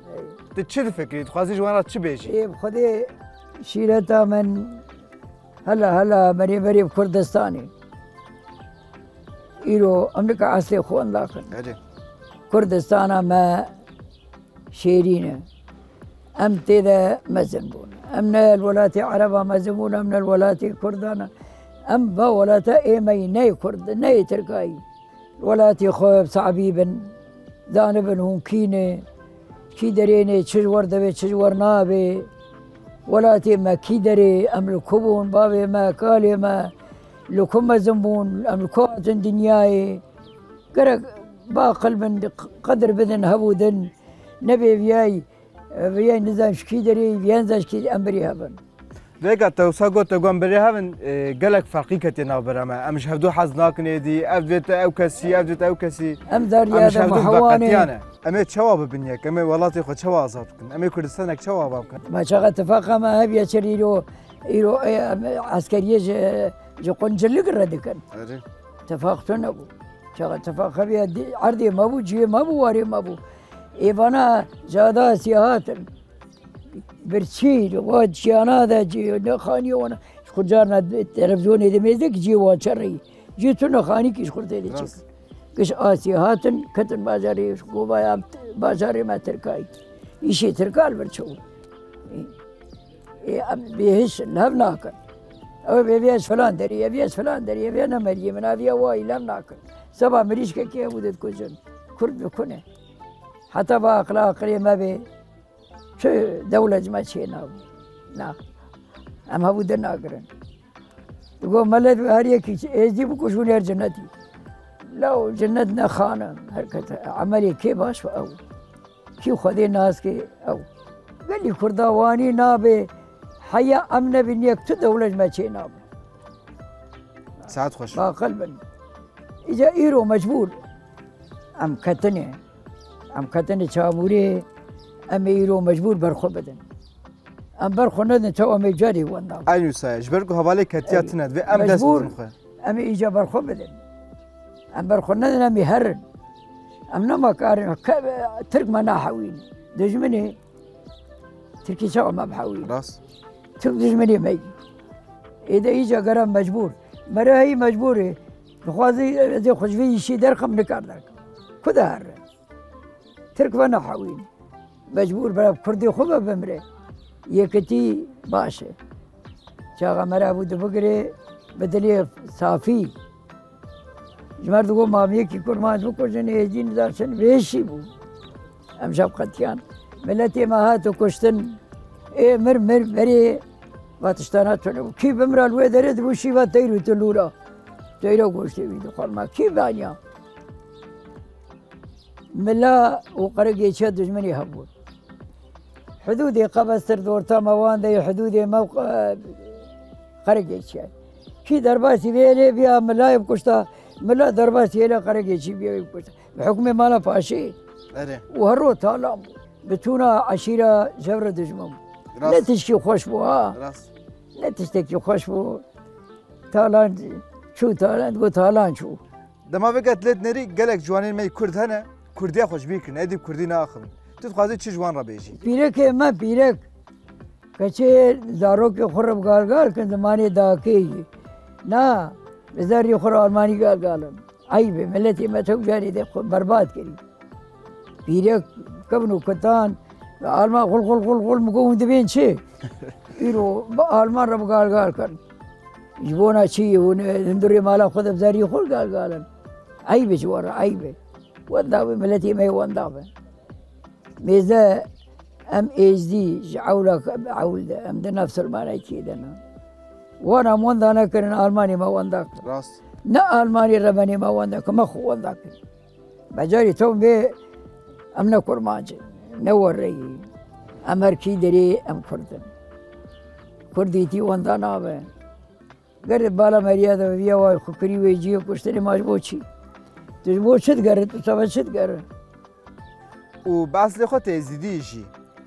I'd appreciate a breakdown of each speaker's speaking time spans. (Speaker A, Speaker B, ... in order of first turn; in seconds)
Speaker A: 0.6-2.3, 11.5-11.8, 49.2-62.0, 68.1-68.4, 84.7-85.0, 127.5-128.0, 139.5-142.3, 152.6-153.0, 207.9-208.2, 212.2-212.5, 213.5-213.9, 219.5-225.4, 262.4-262.8, 283.4-285.1
Speaker B: 2.2-4.8, 5.7-7.7, 9.7-11.5, 12.5-13.7, 14.7-15.5, 16.4-21.3, 21.9-24.8, 25.4-27.1, 27.7-29.1, 29.7-32.3, 33.1-36.7, 37.3-40.0, 40.7-48.6, 56.3-57.9, 62.0-68.0, 68.9-73.2, 73.8-75.9, 77.0-85.0, 85.6-89.7, 90.2-91.4, 93.2-95.0, 95.7-102.6, 103.5-105.1, 106.0-107.6, 108.1-108.4, 109.3-110.3, 111.4-114.1, 114.9-118.4, 119.2-120.7, 121.2-122.9, 123.4-125.8, 127.9-128.6, 129.4-130.6, 131.6-132.4, 133.1-134.5, 135.1-136.6, 137.6-139.5, 140.9-143.8, 144.7-146.0, 146.9-150.4, 151.6-152.7, 153.6-154.5, 155.5-162.2, 163.4-164.3, 164.9-166.7, 167.3-168.8, 169.8-172.9, 174.4-177.9, 178.8-181.6, 182.1-183.4, 184.0-187.3, 188.0-190.0, 192.3-194.7, 196.0-199.6, 200.2-200.9, 201.4-207.6, 208.3-213.6, 214.4-215.6, 216.5-219.0, 225.3-226.7, 227.6-231.1, 231.7-237.0, 238.1-242.4, 243.2-245.2, 246.0-249.3, 249.9-251.0, 251.5-253.1, 254.2-254.9, 255.5-259.4, 260.2-262.4, 263.1-265.6, 266.3-267.4, 268.1-270.3, 270.9-272.5, 273.7-275.1, 276.0-279.5, 280.2-282.1